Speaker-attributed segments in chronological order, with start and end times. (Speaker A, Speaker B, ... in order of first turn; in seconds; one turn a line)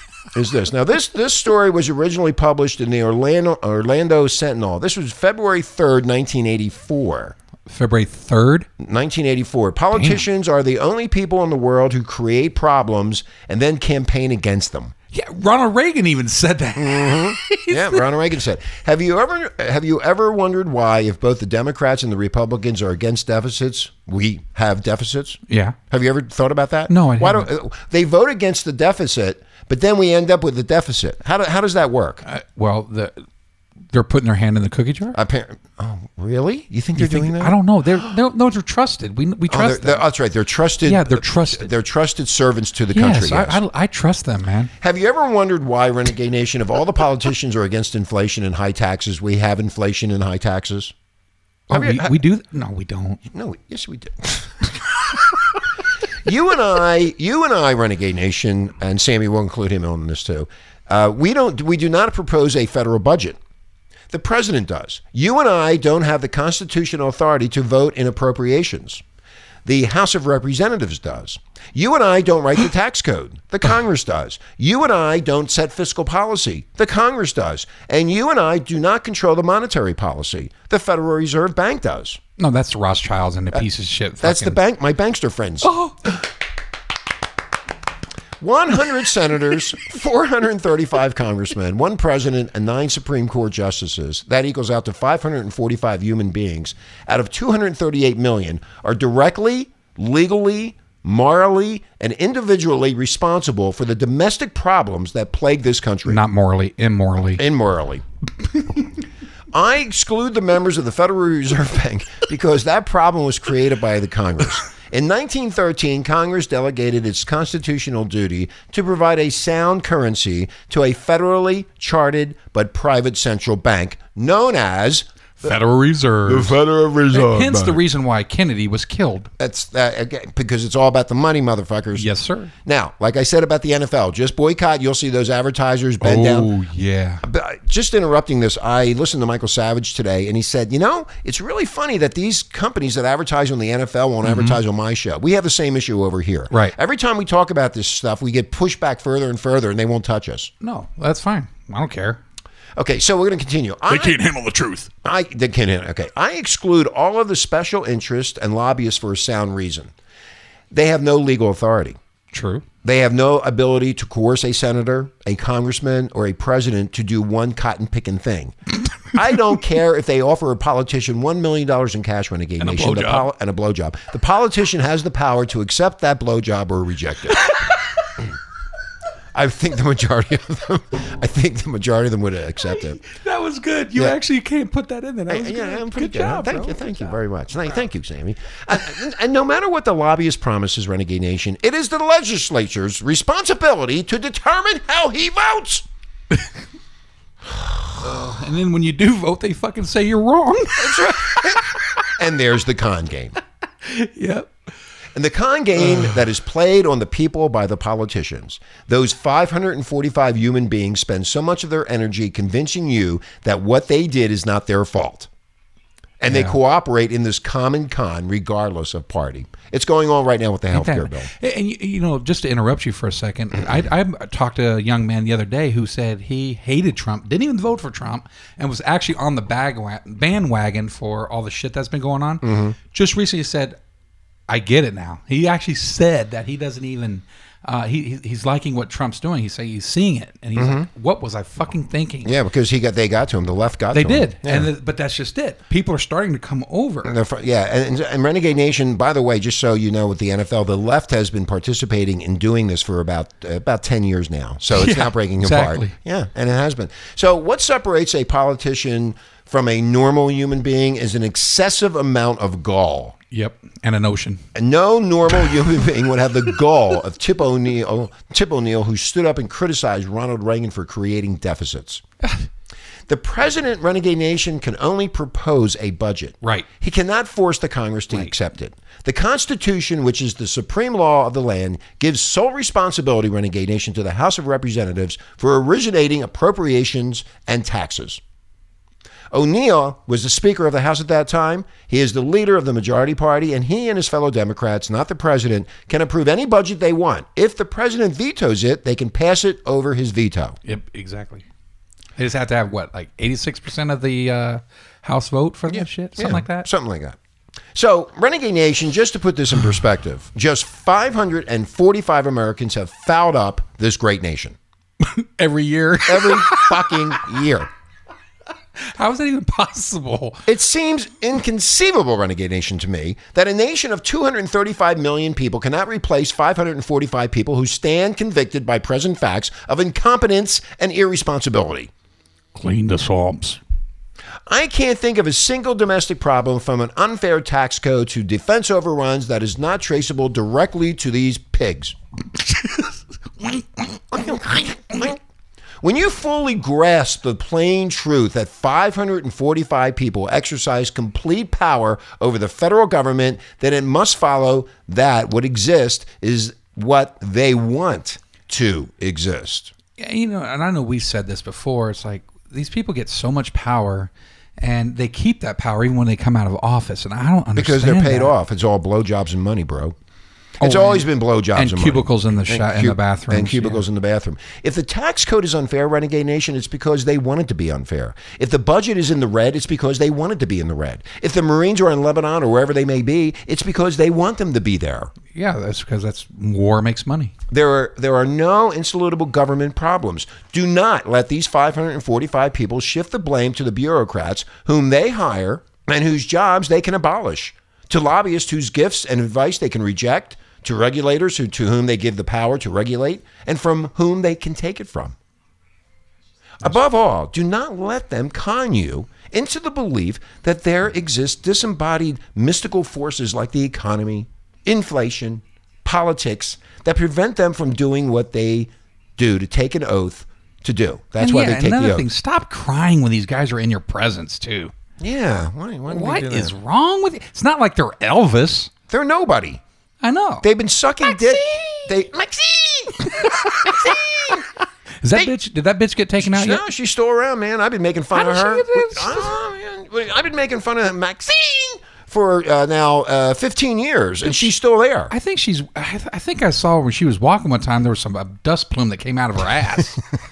Speaker A: 0.3-7.3
Speaker B: 7.7-8.7
Speaker A: 8.8-14.9
Speaker B: 9.9-10.2
Speaker B: 15.1-18.0
Speaker A: 16.8-32.2
Speaker B: 25.5-25.8
Speaker B: 26.9-27.5
Speaker B: 32.2-33.2
Speaker B: 33.9-35.2
Speaker A: 35.1-37.6
Speaker B: 37.0-40.0
Speaker A: 39.5-43.6
Speaker B: 40.8-41.7
Speaker B: 42.9-44.7
Speaker A: 44.8-50.9
Speaker A: 51.7-52.2
Speaker B: 51.7-53.2
Speaker A: 53.2-54.8
Speaker A: 56.2-63.4
Speaker A: 64.1-69.0
Speaker A: 69.6-82.2
Speaker B: 82.4-84.6
Speaker A: 84.2-85.7
Speaker B: 85.6-86.1
Speaker A: 88.4-106.2
Speaker B: 106.0-107.4
Speaker A: 107.4-108.0
Speaker A: 109.5-125.5
Speaker C: 125.4-126.6
Speaker A: 126.2-127.5
Speaker B: 127.1-129.3
Speaker C: 127.4-127.8
Speaker A: 129.4-132.1
Speaker B: 131.9-132.5
Speaker A: 132.6-136.5
Speaker B: 136.0-137.2
Speaker A: 137.2-150.5
Speaker B: 144.2-144.6
Speaker B: 146.5-146.8
Speaker B: 150.6-152.2
Speaker A: 152.8-154.2
Speaker C: 153.9-154.9
Speaker A: 155.0-159.9
Speaker A: 160.7-162.0
Speaker B: 162.3-162.6
Speaker A: 162.8-177.5
Speaker C: 172.6-173.0
Speaker B: 172.7-173.2
Speaker A: 179.3-183.0
Speaker B: 182.6-187.2
Speaker A: 185.3-195.8
Speaker B: 198.0-201.5
Speaker A: 200.8-203.3
Speaker B: 203.8-204.5
Speaker A: 205.1-215.3
Speaker A: 216.2-221.3
Speaker B: 216.3-216.6
Speaker B: 220.7-233.8
Speaker A: 232.4-232.8
Speaker B: 234.5-242.3
Speaker A: 240.6-240.9
Speaker A: 242.2-244.7
Speaker B: 243.9-247.1
Speaker A: 247.0-263.1
Speaker B: 254.7-255.9
Speaker B: 263.3-264.4
Speaker A: 264.5-272.0
Speaker A: 273.1-288.2
Speaker A: 289.3-300.6
Speaker B: 300.6-301.4
Speaker B: 302.2-306.7
Speaker A: 305.7-307.2
Speaker A: 307.7-314.6
Speaker B: 315.0-317.0
Speaker A: 316.0-317.7
Speaker B: 318.8-320.4
Speaker A: 320.4-331.9
Speaker C: 332.6-333.6
Speaker A: 334.5-341.9
Speaker A: 344.1-345.2
Speaker A: 345.8-359.7
Speaker B: 360.0-368.3
Speaker A: 367.5-369.9
Speaker A: 370.6-385.1
Speaker B: 370.6-373.8
Speaker B: 385.3-387.3
Speaker A: 387.5-405.1
Speaker A: 406.6-422.1
Speaker B: 421.2-424.7
Speaker A: 425.0-426.5
Speaker B: 425.9-428.7
Speaker A: 428.9-429.6
Speaker B: 430.0-430.4
Speaker A: 430.4-434.4
Speaker B: 431.0-431.9
Speaker B: 433.2-434.0
Speaker B: 435.0-436.6
Speaker A: 436.2-445.1
Speaker B: 438.1-439.3
Speaker B: 445.1-450.0